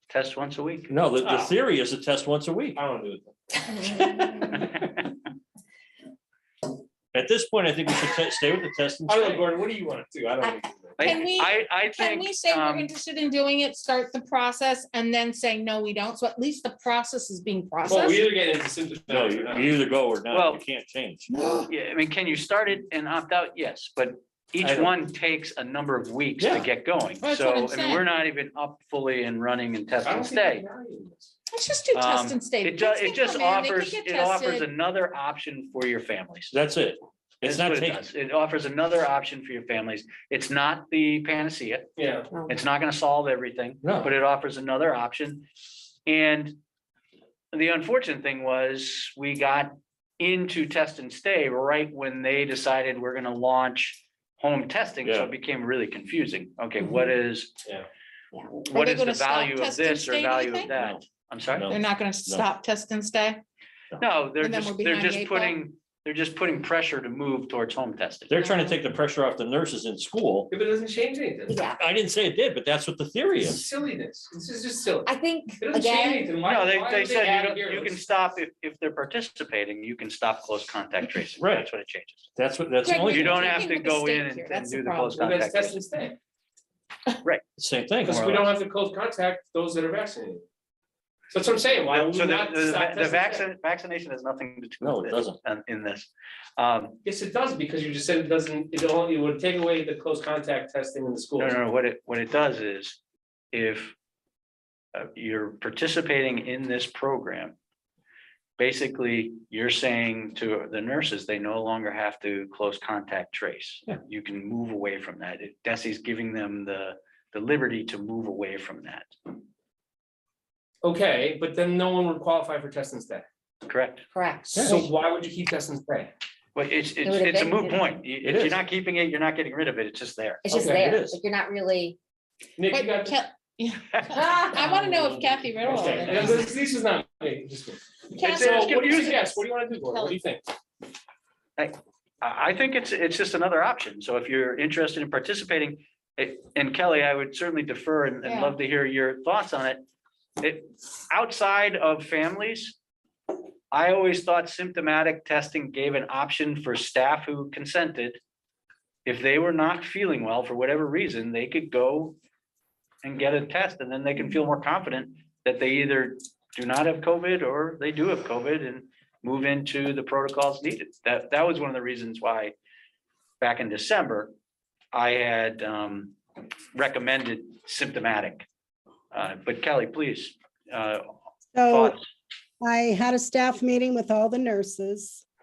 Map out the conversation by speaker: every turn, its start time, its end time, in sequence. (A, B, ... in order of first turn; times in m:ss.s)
0:00.1-0:01.5 A
0:00.9-0:02.8 B
0:02.8-0:03.4 C
0:03.9-0:04.4 D
0:04.5-0:05.0 A
0:07.1-0:09.4 B
0:09.1-0:11.2 C
0:11.0-0:12.9 A
0:11.0-0:18.3 D
0:17.8-0:19.8 C
0:19.1-0:21.3 B
0:20.3-0:20.6 A
0:21.3-0:21.7 D
0:21.7-0:30.6 A
0:24.6-0:24.9 B
0:26.4-0:26.7 B
0:27.2-0:28.0 D
0:30.0-0:31.3 C
0:31.5-0:34.7 D
0:31.9-0:36.5 A
0:36.5-0:38.0 B
0:37.4-0:41.9 A
0:42.0-0:42.3 C
0:42.5-0:45.5 A
0:43.8-0:44.1 B
0:46.0-0:46.6 A
0:47.5-0:57.6 A
0:55.0-0:55.3 B
0:58.4-1:01.7 A
0:58.7-1:00.7 D
1:00.7-1:02.5 B
1:01.7-1:03.4 D
1:04.0-1:08.3 A
1:04.4-1:05.6 D
1:08.3-1:10.5 B
1:10.5-1:11.6 C
1:11.5-1:11.8 E
1:11.8-1:13.7 B
1:13.4-1:17.9 C
1:15.0-1:16.3 E
1:16.4-1:22.3 A
1:21.4-1:21.7 B
1:22.4-1:23.6 B
1:22.8-1:25.3 D
1:23.1-1:25.8 A
1:25.2-1:26.2 C
1:27.6-1:28.3 B
1:28.0-1:28.5 A
1:28.0-1:30.4 C
1:31.3-1:33.4 C
1:31.9-1:37.0 A
1:34.8-1:35.4 B
1:37.0-1:41.5 C
1:41.4-1:43.0 A
1:43.5-1:43.9 A
1:44.9-1:47.5 A
1:48.6-1:59.1 A
2:00.8-2:03.2 C
2:03.6-2:04.0 A
2:04.1-2:04.7 E
2:04.5-2:04.8 B
2:04.6-2:06.1 C
2:06.5-2:10.4 A
2:07.0-2:07.8 E
2:08.2-2:08.6 B
2:10.4-2:12.0 E
2:10.5-2:10.9 C
2:10.5-2:11.2 B
2:12.6-2:13.2 C
2:12.7-2:16.5 D
2:13.9-2:14.2 A
2:14.2-2:14.8 E
2:14.5-2:20.4 C
2:18.1-2:20.2 D
2:18.2-2:19.2 A
2:21.6-2:29.8 A
2:28.2-2:28.5 D
2:30.4-2:32.8 A
2:33.7-2:38.2 A
2:39.0-2:42.2 A
2:43.0-2:52.5 A
2:53.4-2:54.3 A
2:54.9-2:56.2 A
2:56.7-2:58.4 A
2:59.1-3:02.0 A
3:01.5-3:02.0 F
3:02.6-3:05.2 F